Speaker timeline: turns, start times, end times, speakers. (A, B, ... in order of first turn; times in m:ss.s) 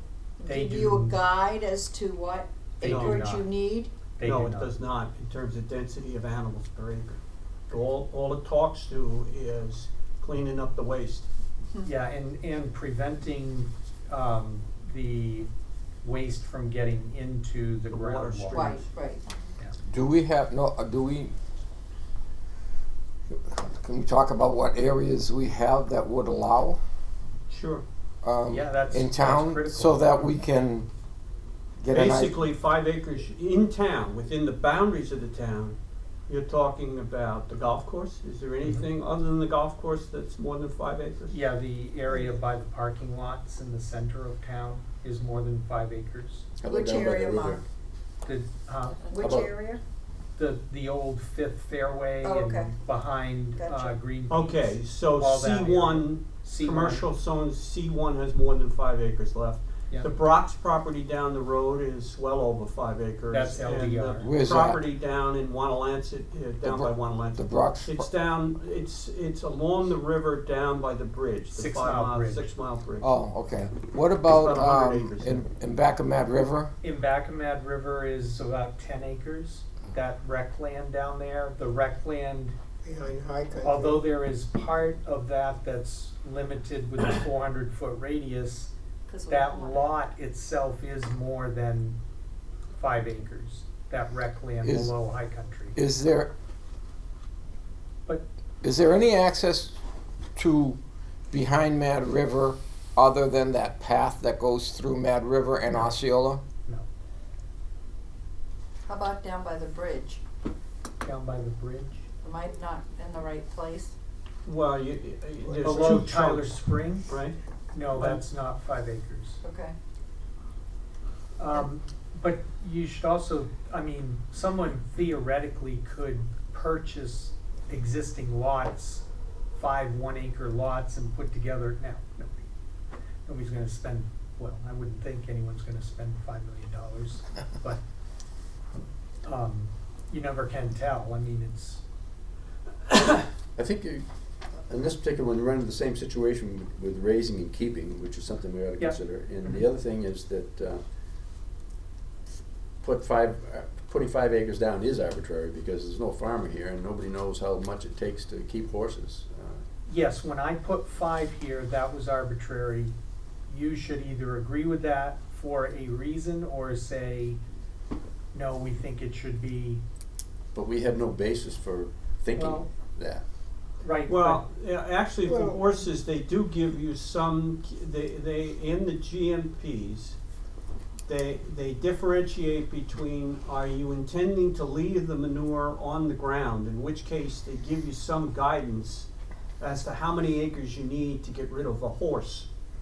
0:00.4-0:03.9 A
0:00.4-0:01.2 B
0:02.8-0:03.5 B
0:02.8-0:03.2 C
0:04.2-0:04.7 B
0:04.2-0:11.3 C
0:11.8-0:15.5 B
0:16.0-0:18.7 B
0:17.9-0:18.8 C
0:18.5-0:19.3 A
0:19.9-0:21.3 D
0:23.3-0:26.8 D
0:27.5-0:27.8 C
0:28.2-0:30.9 D
0:28.5-0:30.3 B
0:31.8-0:32.4 D
0:31.9-0:35.8 C
0:36.3-0:41.4 C
0:41.3-0:46.5 B
0:42.1-0:42.4 A
0:46.6-0:47.6 E
0:46.6-0:47.6 A
0:48.2-0:49.5 B
0:49.0-0:49.8 A
0:49.2-0:49.5 E
0:50.4-0:57.0 B
0:52.2-0:52.8 A
0:53.5-0:54.0 A
0:54.3-1:13.1 C
1:03.3-1:04.3 B
1:04.2-1:04.8 D
1:06.6-1:08.1 D
1:11.5-1:12.5 B
1:13.0-1:16.7 D
1:14.2-1:15.4 C
1:16.8-1:22.6 B
1:22.8-1:24.0 F
1:23.6-1:28.7 B
1:29.1-1:29.9 A
1:29.3-1:32.0 B
1:32.7-1:35.8 B
1:34.6-1:34.9 D
1:35.8-1:36.3 D
1:38.6-1:39.8 D
1:40.3-1:40.8 D
1:41.3-1:46.4 D
1:45.7-1:46.0 B
1:48.8-1:50.2 A
1:51.0-1:52.0 B
1:52.2-1:53.9 A
1:54.4-1:57.4 C
1:55.4-1:56.0 F
1:55.6-1:57.0 B
1:57.7-1:59.4 B
1:57.9-1:58.2 C
1:59.4-1:59.8 A
2:01.4-2:12.5 B
2:13.2-2:17.8 B
2:19.2-2:21.8 B
2:23.6-2:24.0 E
2:24.6-2:30.8 E
2:32.8-2:39.6 E
2:39.8-2:42.9 B
2:43.5-2:47.4 B
2:48.3-2:49.8 B
2:50.5-2:53.2 E
2:52.3-2:52.7 B
2:53.8-2:54.4 B
2:54.1-3:00.2 C
2:55.2-2:55.8 F
3:01.1-3:09.1 C
3:09.6-3:12.5 C